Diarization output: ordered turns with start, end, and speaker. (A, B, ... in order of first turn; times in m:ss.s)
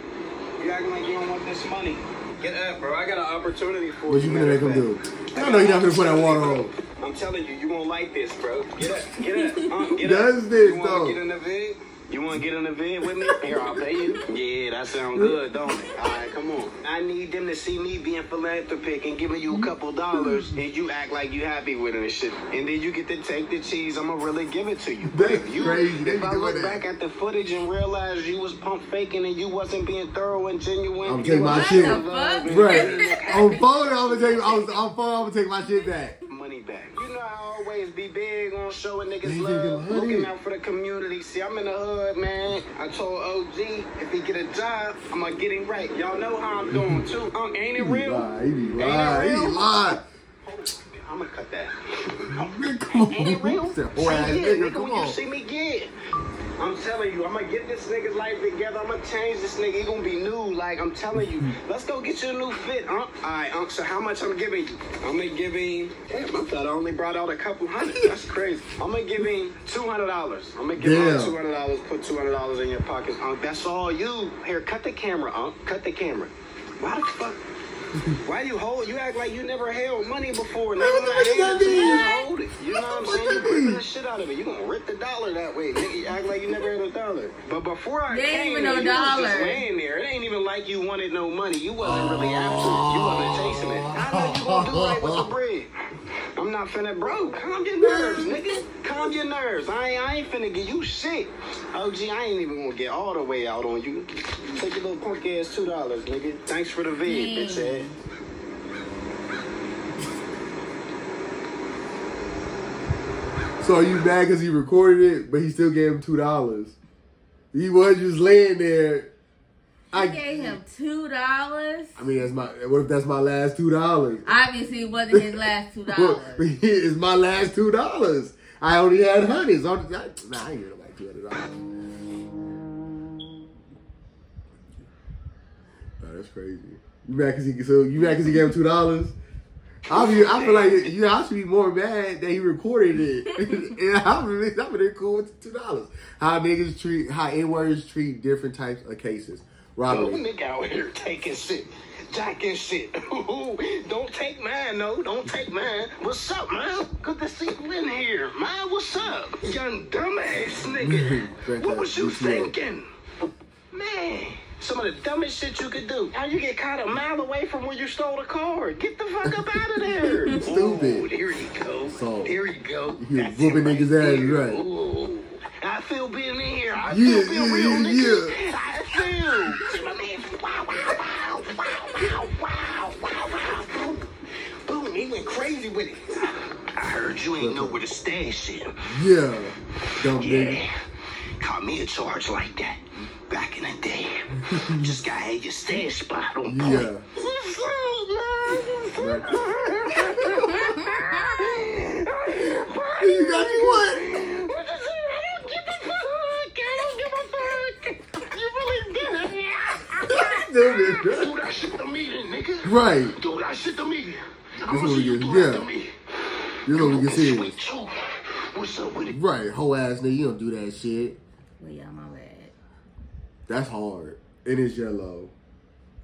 0:00.6-0:34.6 A
0:04.1-0:06.7 B
0:09.3-0:09.6 C
0:10.0-0:11.2 B
0:15.1-0:15.4 B
0:19.5-0:20.5 B
0:25.1-0:26.8 B
0:31.0-0:36.2 B
0:31.4-0:33.5 C
0:36.3-0:49.7 A
0:39.2-0:40.3 B
0:46.7-0:47.0 B
0:47.8-0:50.0 B
0:50.4-0:55.9 A
0:52.3-0:55.2 B
0:56.6-1:17.4 A
1:10.7-1:11.3 B
1:18.2-1:35.7 A
1:20.8-1:23.8 B
1:21.6-1:22.2 C
1:28.1-1:29.6 C
1:31.8-1:35.3 B
1:36.3-1:47.9 A
1:37.8-1:38.6 B
1:47.0-1:48.0 C
1:53.6-1:56.8 B
1:57.5-1:59.1 B
1:59.9-2:02.2 C
1:59.9-2:00.6 B
2:02.0-2:04.3 B
2:04.2-2:06.5 C
2:05.1-2:11.6 B
2:16.0-2:19.2 B
2:19.9-2:20.9 A
2:19.9-2:30.2 B
2:29.9-2:42.9 A
2:40.8-2:42.5 B
2:43.7-3:04.1 A
2:50.2-2:51.1 B
2:51.9-2:54.6 B
2:56.9-2:58.4 B
3:04.6-3:08.9 A
3:07.4-3:07.8 B
3:08.9-3:10.6 B
3:10.1-3:10.7 A
3:11.4-3:35.9 A
3:14.4-3:14.9 B
3:16.4-3:17.0 B
3:19.0-3:19.6 B
3:23.0-3:24.3 B
3:30.1-3:31.4 B
3:32.6-3:33.2 B
3:34.6-3:35.7 B
3:36.6-3:37.6 B
3:36.7-3:39.2 A
3:39.1-3:41.2 B
3:41.6-3:42.5 C
3:43.5-3:45.3 B